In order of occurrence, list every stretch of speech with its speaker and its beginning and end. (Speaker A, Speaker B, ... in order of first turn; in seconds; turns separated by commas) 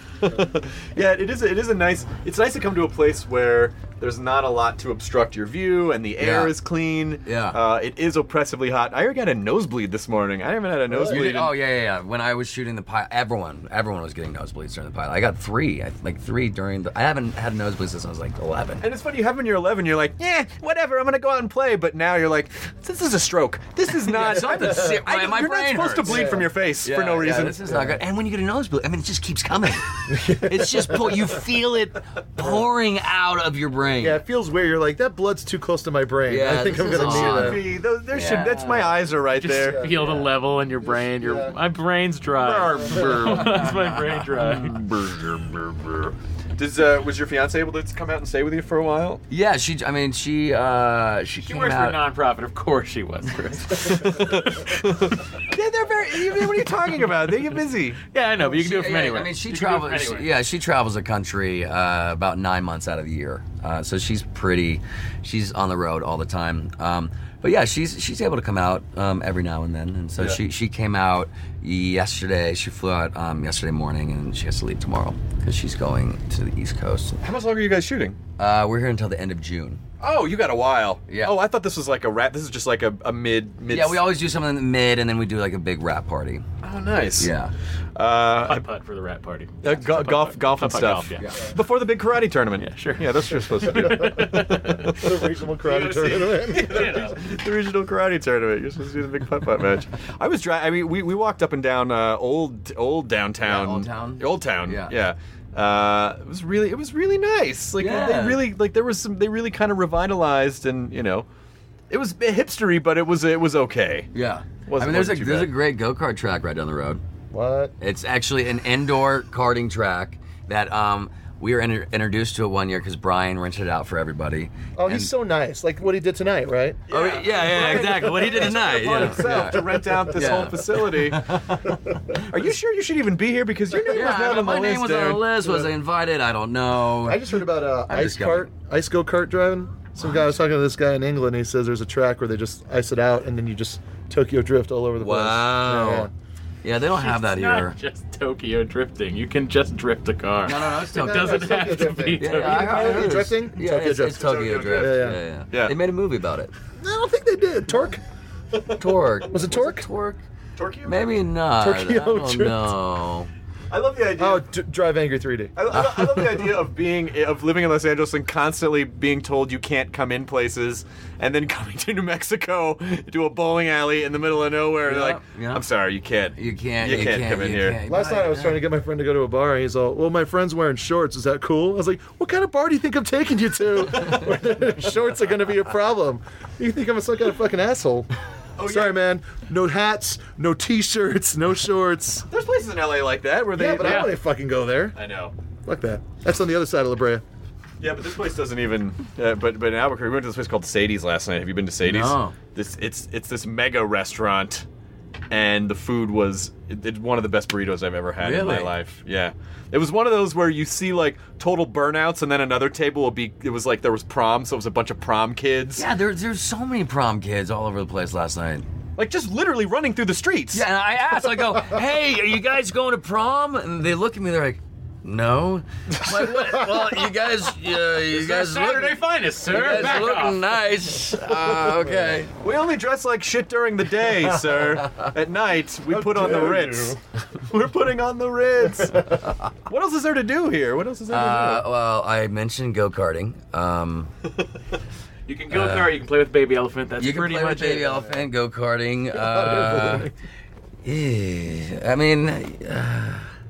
Speaker A: 0.2-11.6, Speaker B: 6.2-6.5, Speaker B: 7.3-7.6, Speaker C: 10.9-11.3, Speaker B: 11.1-18.9, Speaker A: 18.8-27.6, Speaker B: 23.9-34.2, Speaker C: 26.1-26.5, Speaker C: 27.7-28.0, Speaker C: 30.1-31.3, Speaker C: 34.0-37.7, Speaker B: 36.3-38.9, Speaker A: 36.9-39.9, Speaker C: 39.4-41.6, Speaker D: 39.4-44.8, Speaker A: 42.3-49.2, Speaker C: 42.8-43.4, Speaker B: 49.3-52.0, Speaker D: 51.4-54.6, Speaker A: 53.8-58.0, Speaker D: 58.0-60.3, Speaker B: 58.5-77.2, Speaker A: 77.2-78.2, Speaker B: 78.4-79.8, Speaker A: 80.0-84.0, Speaker B: 81.1-81.4, Speaker B: 83.7-86.5, Speaker A: 86.6-87.3, Speaker B: 87.2-87.5, Speaker A: 88.0-88.7, Speaker D: 88.4-91.3, Speaker A: 89.6-95.1, Speaker D: 92.6-94.9, Speaker C: 95.0-97.1, Speaker D: 95.7-97.2, Speaker A: 95.7-111.3, Speaker B: 103.4-105.0, Speaker B: 107.8-108.5, Speaker A: 111.9-114.1, Speaker B: 114.1-117.0, Speaker A: 114.7-115.5, Speaker C: 117.3-117.7, Speaker B: 117.8-125.1, Speaker C: 124.8-126.8, Speaker A: 126.9-131.3, Speaker B: 126.9-132.2, Speaker C: 127.9-130.5, Speaker A: 132.3-135.3, Speaker C: 133.7-134.3, Speaker B: 133.9-138.5, Speaker C: 137.1-146.1, Speaker B: 140.0-140.3, Speaker B: 145.0-146.1, Speaker B: 146.6-147.8, Speaker D: 146.9-153.2, Speaker B: 150.4-151.5, Speaker C: 150.9-155.2, Speaker B: 152.2-156.5, Speaker A: 154.1-155.8, Speaker C: 156.8-158.0, Speaker B: 158.7-160.2, Speaker C: 159.3-159.9, Speaker A: 160.6-161.1, Speaker B: 160.8-163.3, Speaker C: 161.5-162.7, Speaker A: 163.7-164.5, Speaker C: 164.2-165.5, Speaker A: 165.6-177.8, Speaker B: 165.7-166.2, Speaker B: 174.8-175.7, Speaker B: 176.3-178.7, Speaker C: 177.9-188.1, Speaker A: 188.6-189.0, Speaker C: 188.7-192.3, Speaker A: 192.3-194.2, Speaker C: 193.5-195.0, Speaker A: 194.9-195.3, Speaker C: 195.7-197.2, Speaker A: 197.8-204.7, Speaker B: 201.8-202.4, Speaker A: 205.3-215.9, Speaker B: 208.2-208.8, Speaker B: 215.8-218.7, Speaker A: 219.0-220.6, Speaker B: 220.5-232.3, Speaker D: 228.1-230.4, Speaker C: 231.6-232.1, Speaker A: 232.4-239.1, Speaker C: 235.9-237.0, Speaker A: 239.7-241.6, Speaker B: 241.1-244.1, Speaker D: 245.3-248.1, Speaker B: 245.5-246.0, Speaker B: 247.0-250.1, Speaker C: 249.1-250.1, Speaker B: 250.8-253.3